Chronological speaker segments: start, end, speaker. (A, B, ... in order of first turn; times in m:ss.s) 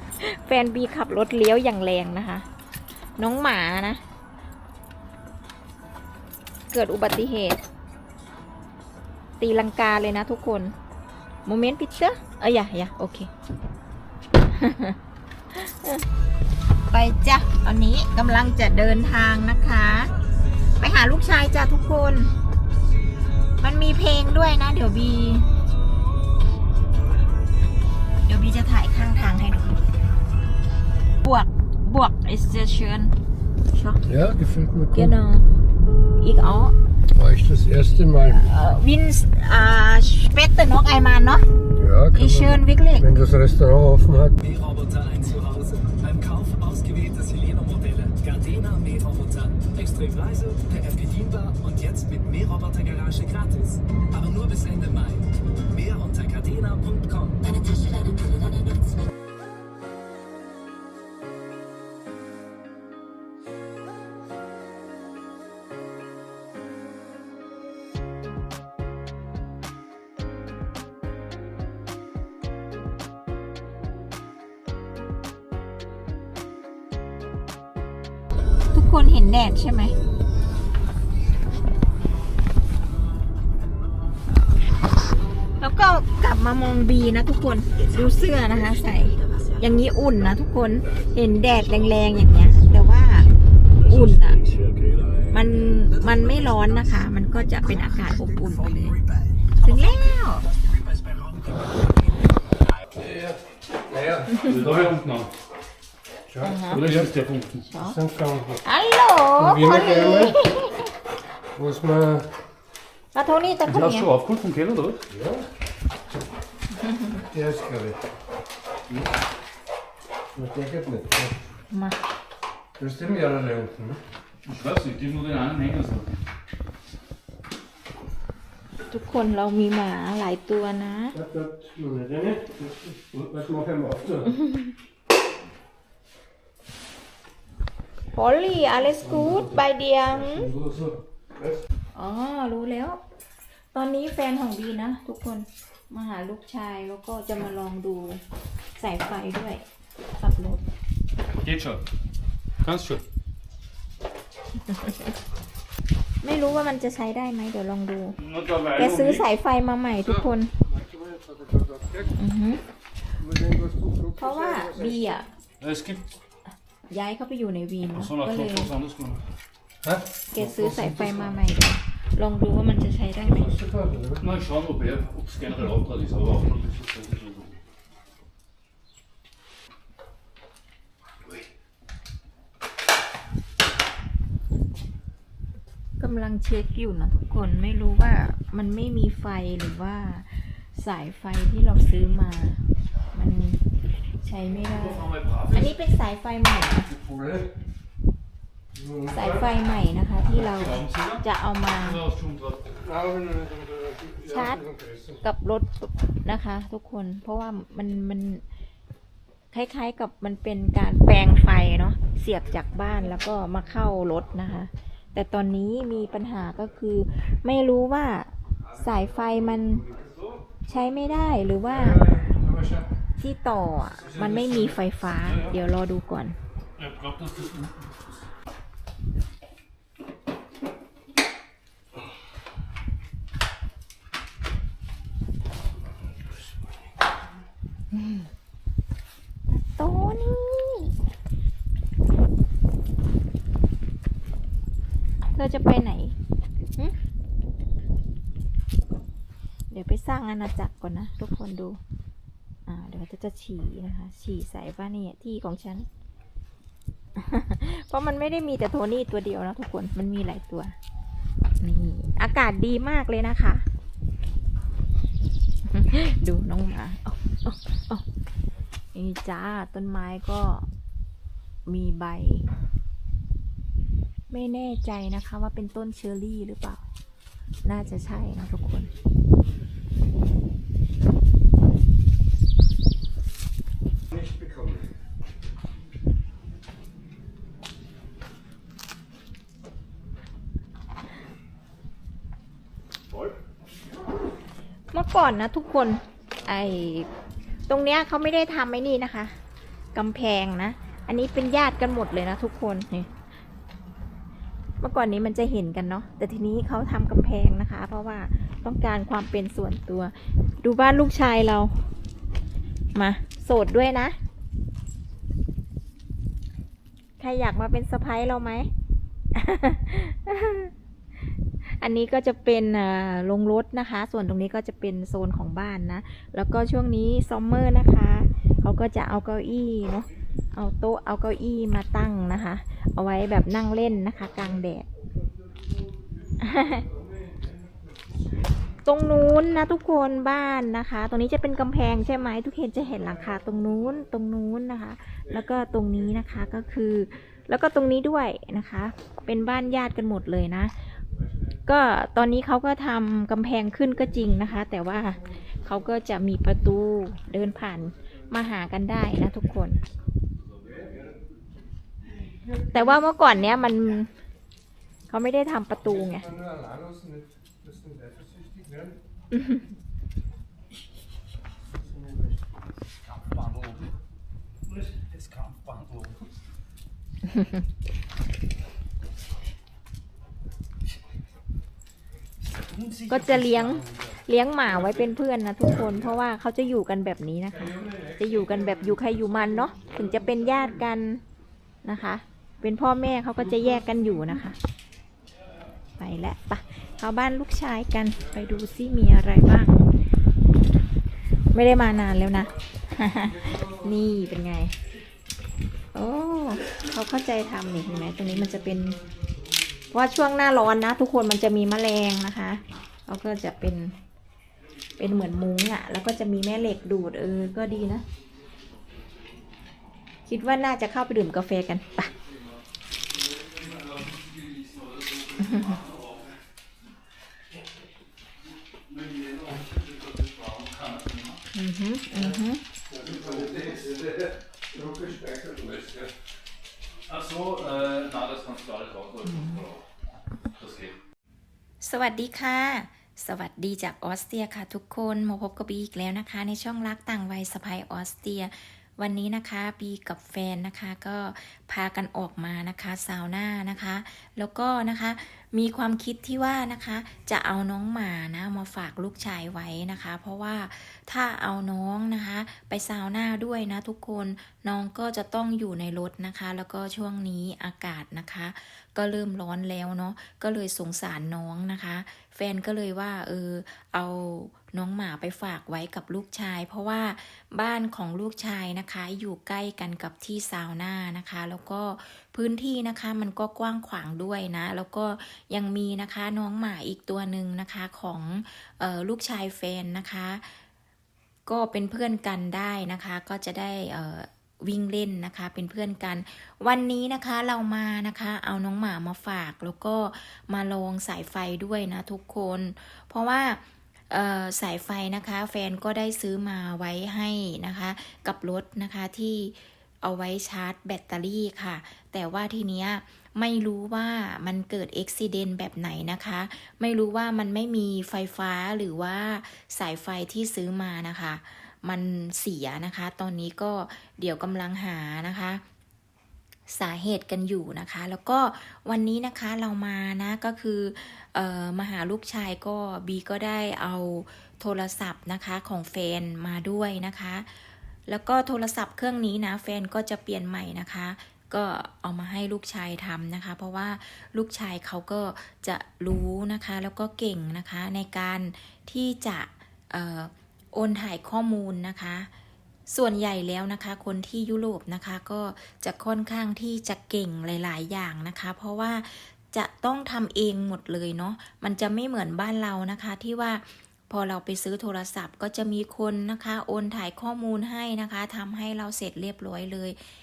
0:00.2-0:02.4 A
0:03.2-0:04.0 A
0:06.7-0:07.6 A
0:09.4-0:10.7 A
0:11.4-0:13.3 A
0:14.4-0:15.0 A
0:15.5-0:16.1 A
0:16.9-0:20.1 A
0:20.8-0:22.3 A
0:23.6-0:25.5 A
0:28.2-0:29.8 A
0:31.2-0:33.1 A
0:33.7-0:34.0 A
0:34.1-0:35.1 B
0:34.9-0:35.5 A
0:36.2-0:36.7 A
0:37.1-0:38.4 B
0:38.2-0:41.5 A
0:41.8-0:44.4 B
0:42.1-0:43.1 A
0:44.4-0:57.5 C
1:18.7-1:19.9 A
1:25.6-1:34.4 A
1:34.4-1:35.2 C
1:35.3-1:39.0 A
1:36.1-1:36.7 C
1:38.6-1:39.3 C
1:39.6-1:40.5 A
1:40.6-1:41.8 C
1:43.0-1:44.9 B
1:44.3-1:45.3 D
1:46.3-1:47.1 B
1:46.4-1:46.9 A
1:46.6-1:47.6 D
1:47.6-1:48.0 A
1:47.8-1:48.6 B
1:48.6-1:50.9 A
1:49.4-1:50.4 B
1:51.5-1:52.3 B
1:53.1-1:54.1 A
1:53.7-1:55.0 D
1:55.1-1:55.4 B
1:56.8-1:57.2 A
1:57.2-1:58.0 B
2:00.3-2:01.4 B
2:01.7-2:02.0 A
2:02.8-2:04.0 B
2:04.4-2:06.2 D
2:08.9-2:11.2 A
2:11.1-2:14.4 B
2:18.1-2:20.5 A
2:19.1-2:19.6 B
2:20.2-2:21.6 B
2:21.9-2:23.0 A
2:23.7-2:28.2 A
2:28.8-2:29.6 A
2:30.2-2:30.6 A
2:31.4-2:31.8 D
2:32.6-2:33.0 D
2:34.7-2:35.0 A
2:36.2-2:38.2 A
2:38.2-2:39.2 D
2:38.7-2:40.5 A
2:40.7-2:42.1 B
2:42.2-2:42.6 A
2:43.2-2:45.0 B
2:44.2-2:45.3 A
2:45.6-2:46.1 D
2:46.9-2:48.7 A
2:47.9-2:49.2 D
2:49.8-2:51.2 B
2:50.3-2:53.6 A
2:53.3-2:54.2 B
2:54.2-2:57.6 D
3:06.0-3:13.6 A
3:14.2-3:16.9 A
3:14.7-3:15.7 D
3:16.9-3:17.5 B
3:18.7-3:19.4 B
3:19.1-3:22.0 A
3:20.3-3:21.2 D
3:21.8-3:22.6 D
3:22.8-3:25.2 B
3:24.2-3:24.6 A
3:25.2-3:28.4 A
3:29.5-3:39.8 A
3:40.6-3:42.2 A
3:41.8-3:42.8 B
3:43.2-3:46.4 A
3:44.1-3:45.6 D
3:46.8-3:48.0 D
3:57.9-3:58.2 A
3:59.5-4:00.9 A
4:05.2-4:06.2 A
4:09.7-4:11.8 A
4:12.7-4:15.9 A
4:17.2-4:20.7 A
4:21.6-4:23.6 A
4:25.7-4:28.0 A
4:28.9-4:30.7 A
4:31.7-4:32.5 A
4:34.3-4:36.8 A
4:37.6-4:38.9 A
4:44.1-4:44.8 B
4:54.9-4:57.1 A
4:57.7-4:59.4 A
4:59.9-5:03.1 A
5:04.8-5:11.8 A
5:12.9-5:14.2 A
5:17.2-5:18.7 A
5:19.3-5:20.7 A
5:21.6-5:34.9 A
5:36.4-5:36.9 A
5:36.9-5:37.5 B
5:38.8-5:50.7 A
5:51.7-5:59.8 A
6:02.7-6:04.1 A
6:05.1-6:06.3 A
6:06.0-6:09.0 B
6:09.3-6:09.6 A
6:11.8-6:12.4 B
6:13.0-6:13.9 D
6:14.7-6:16.2 D
6:22.6-6:24.0 D
6:23.1-6:31.2 A
6:27.8-6:28.1 B
6:31.8-6:34.6 A
6:36.0-6:39.9 A
6:41.5-6:44.7 A
6:45.9-6:49.0 A
6:49.9-6:53.9 A
6:55.0-6:58.0 A
7:00.3-7:02.1 A
7:03.3-7:06.4 D
7:05.4-7:05.8 A
7:08.9-7:11.4 D
7:11.5-7:12.6 A
7:12.9-7:13.9 D
7:12.9-7:16.1 B
7:17.1-7:19.8 D
7:19.3-7:19.6 A
7:20.5-7:21.0 D
7:21.8-8:10.6 A
8:11.5-8:45.6 A
8:46.7-9:12.3 A
9:12.9-9:30.0 A